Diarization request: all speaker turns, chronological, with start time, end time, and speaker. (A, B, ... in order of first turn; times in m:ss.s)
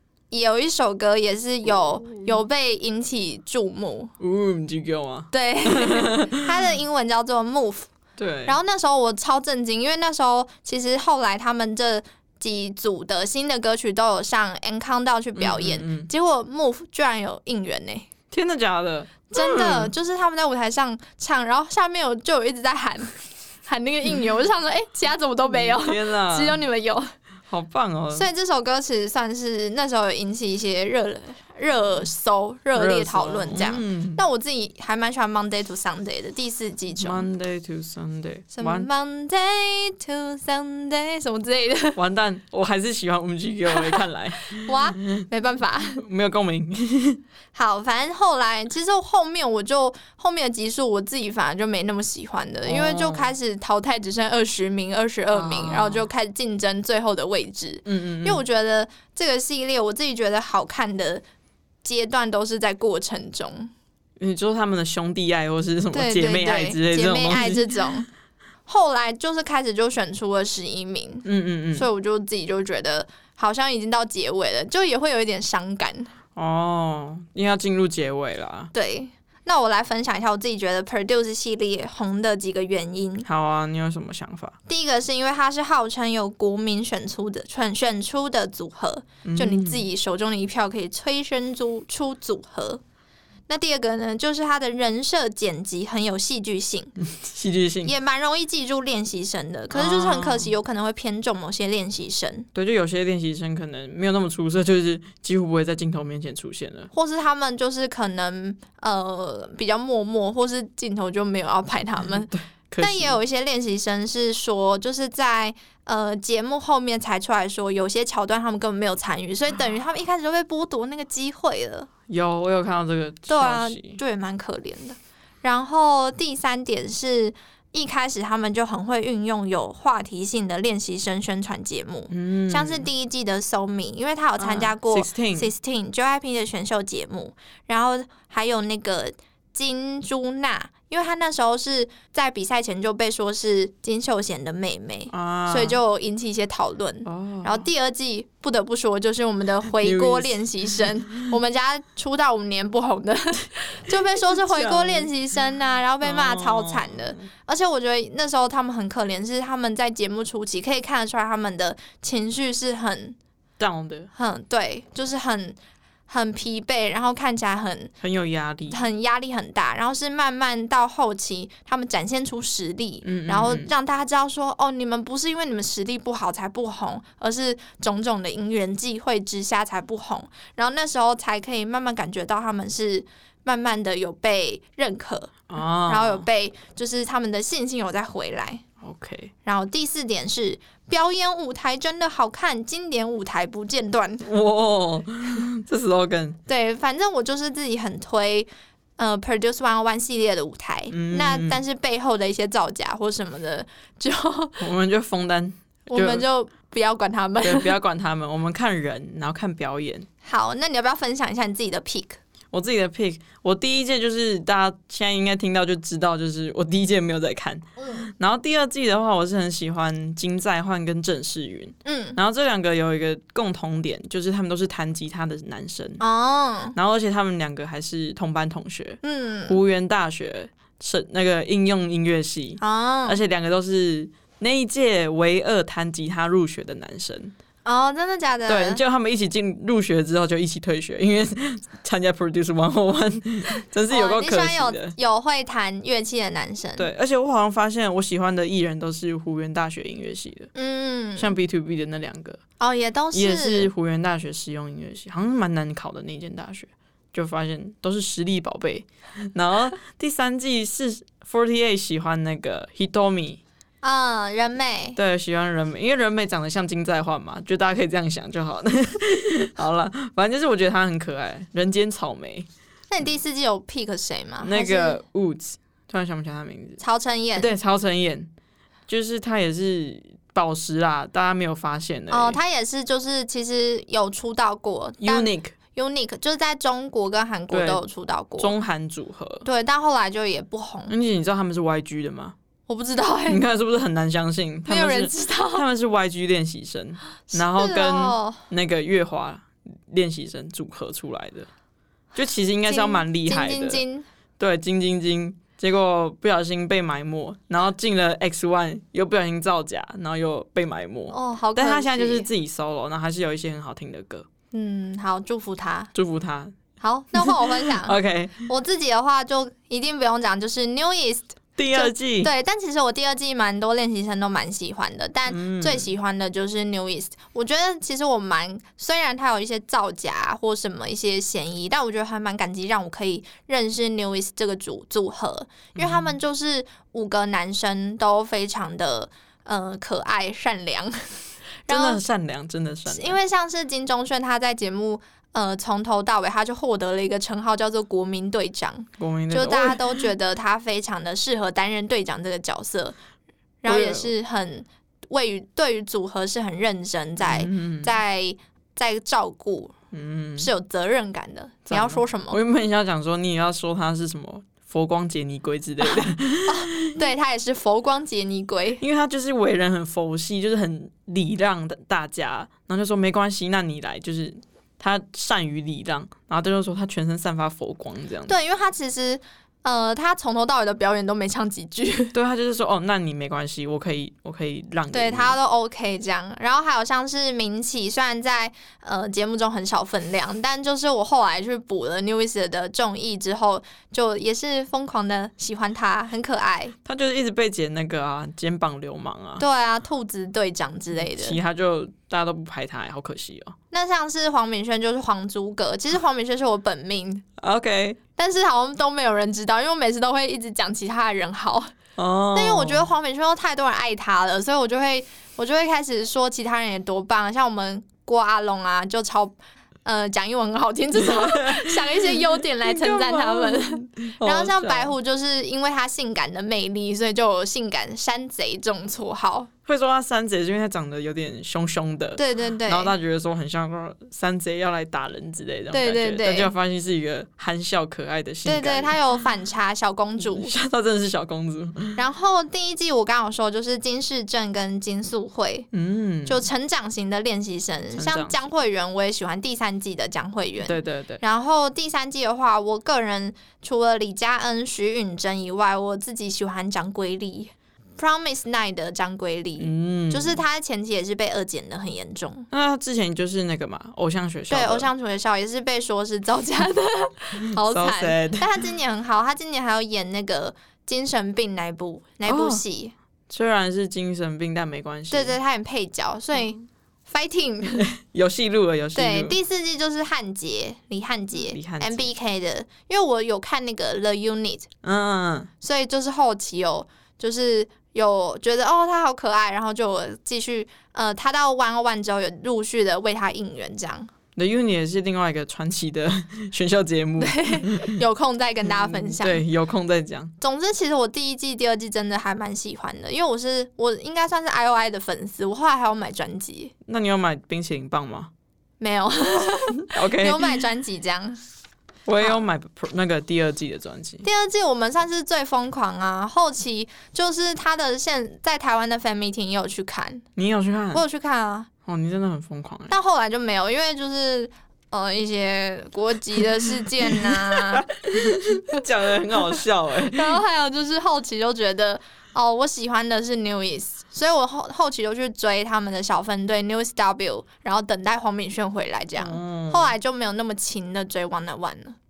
0:00.3-0:04.1 A
0:01.7-0:02.4 B
0:04.2-0:06.5 B
0:05.3-0:07.9 A
0:08.2-0:08.6 B
0:08.5-0:18.1 A
0:15.4-0:16.1 B
0:18.3-0:19.9 B
0:19.3-0:23.1 A
0:23.7-0:27.1 A
0:25.5-0:26.6 B
0:27.5-0:28.3 B
0:28.1-0:37.3 A
0:32.8-0:34.2 B
0:37.0-0:38.9 B
0:38.5-0:42.0 A
0:42.0-0:45.2 B
0:43.7-0:46.0 A
0:46.0-0:47.2 B
0:47.5-1:01.2 A
0:52.6-0:53.3 B
0:55.3-0:56.0 B
0:57.8-0:58.4 B
1:01.8-1:03.7 A
1:04.2-1:07.9 B
1:05.9-1:08.1 A
1:08.7-1:16.1 A
1:11.2-1:11.9 B
1:16.4-1:18.7 B
1:18.7-1:23.3 A
1:23.2-1:24.6 B
1:24.7-1:32.8 A
1:29.2-1:29.8 B
1:33.5-1:36.9 A
1:37.0-1:37.9 B
1:37.8-1:42.5 A
1:39.7-1:40.5 B
1:42.5-1:46.9 B
1:46.9-1:52.3 A
1:52.3-1:53.2 B
1:52.8-2:01.9 A
2:02.1-2:04.0 B
2:03.3-2:43.2 A
2:12.1-2:12.9 B
2:14.4-2:15.5 B
2:25.1-2:25.8 B
2:27.0-2:27.7 B
2:29.8-2:30.9 B
2:34.3-2:35.1 B
2:36.0-2:37.3 B
2:43.6-2:44.1 B
2:44.2-2:45.6 A
2:46.1-2:47.9 A
2:48.0-2:48.8 B
2:48.7-3:08.6 A
2:53.0-2:53.7 B
3:05.5-3:06.3 B
3:08.8-3:09.3 B
3:09.4-3:14.3 A
3:14.2-3:16.4 B
3:16.5-3:24.6 A
3:20.9-3:21.6 B
3:24.6-3:26.2 B
3:25.9-3:27.8 A
3:27.4-3:30.1 B
3:30.2-3:32.2 A
3:32.5-3:46.0 B
3:37.8-3:38.1 A
3:41.8-3:42.2 A
3:46.0-3:46.8 A
3:46.8-3:57.3 B
3:49.0-3:49.6 A
3:52.6-3:53.2 A
3:57.6-3:58.8 A
3:58.5-4:05.0 B
4:03.9-4:06.9 A
4:06.8-4:10.5 B
4:10.5-4:11.4 A
4:11.2-4:12.4 B
4:12.6-4:13.7 A
4:13.1-4:23.4 B
4:23.8-4:25.0 A
4:25.0-4:32.5 B
4:32.9-4:35.0 A
4:34.4-4:36.8 B
4:36.8-4:37.5 A
4:37.4-4:38.3 B
4:38.9-4:42.4 B
4:42.1-4:48.5 A
4:45.0-4:45.6 B
4:47.5-4:47.8 B
4:48.4-4:49.4 B
4:49.4-4:50.9 A
4:50.9-4:52.4 B
4:52.7-4:53.4 A
4:53.3-5:01.5 B
4:54.7-4:55.6 A
4:57.3-4:58.4 A
5:02.2-5:03.8 B
5:02.7-5:04.0 A
5:04.4-5:14.3 B
5:11.1-5:12.3 A
5:14.5-5:15.9 A
5:15.9-5:16.6 B
5:16.8-5:41.0 A
5:17.1-5:18.4 B
5:21.6-5:22.3 B
5:25.3-5:25.9 B
5:35.8-5:36.1 B
5:41.7-5:42.0 A
5:41.7-5:43.2 B
5:42.9-5:53.0 A
5:49.0-5:50.0 B
5:53.6-5:59.8 A
5:53.6-5:54.1 B
5:57.2-5:57.9 B
5:59.9-6:00.5 B
6:00.4-6:02.4 A
6:01.7-6:06.9 B
6:05.8-6:08.8 A
6:08.8-6:18.3 B
6:18.3-6:22.1 A
6:22.1-6:25.4 B
6:24.9-6:36.8 A
6:36.8-6:39.4 B
6:39.4-6:41.4 A
6:41.0-6:43.6 B
6:43.7-6:47.2 A
6:47.4-6:48.0 B
6:48.2-6:51.7 A
6:52.0-6:52.9 B
6:52.3-7:09.5 A
7:01.0-7:04.9 B
7:09.7-7:19.0 B
7:12.2-7:12.9 A
7:15.7-7:16.5 A
7:18.4-7:20.5 A
7:20.2-7:22.0 B
7:22.0-7:25.7 A
7:25.7-7:26.4 B
7:26.3-7:42.5 A
7:27.9-7:28.4 B
7:30.6-7:31.2 B
7:39.6-7:40.4 B
7:42.5-7:44.9 B
7:44.5-7:52.9 A
7:47.6-7:48.6 B
7:52.3-7:52.6 B
7:53.3-7:55.4 B
7:55.1-7:57.9 A
7:57.7-7:59.4 B
7:59.0-8:04.7 A
8:01.4-8:02.1 B
8:04.8-8:05.5 B
8:05.6-8:14.1 A
8:14.4-8:18.0 B
8:17.2-8:19.4 A
8:18.6-8:20.3 B
8:20.4-8:26.7 A
8:26.9-8:28.3 B
8:28.8-8:31.4 A
8:29.9-8:30.6 B
8:32.1-8:34.2 B
8:34.2-8:40.2 A
8:40.4-8:41.0 B
8:40.9-8:41.7 A
8:41.9-8:43.0 B
8:42.9-8:47.9 A
8:47.1-8:50.4 B
8:50.0-9:02.0 A
8:59.2-8:59.9 B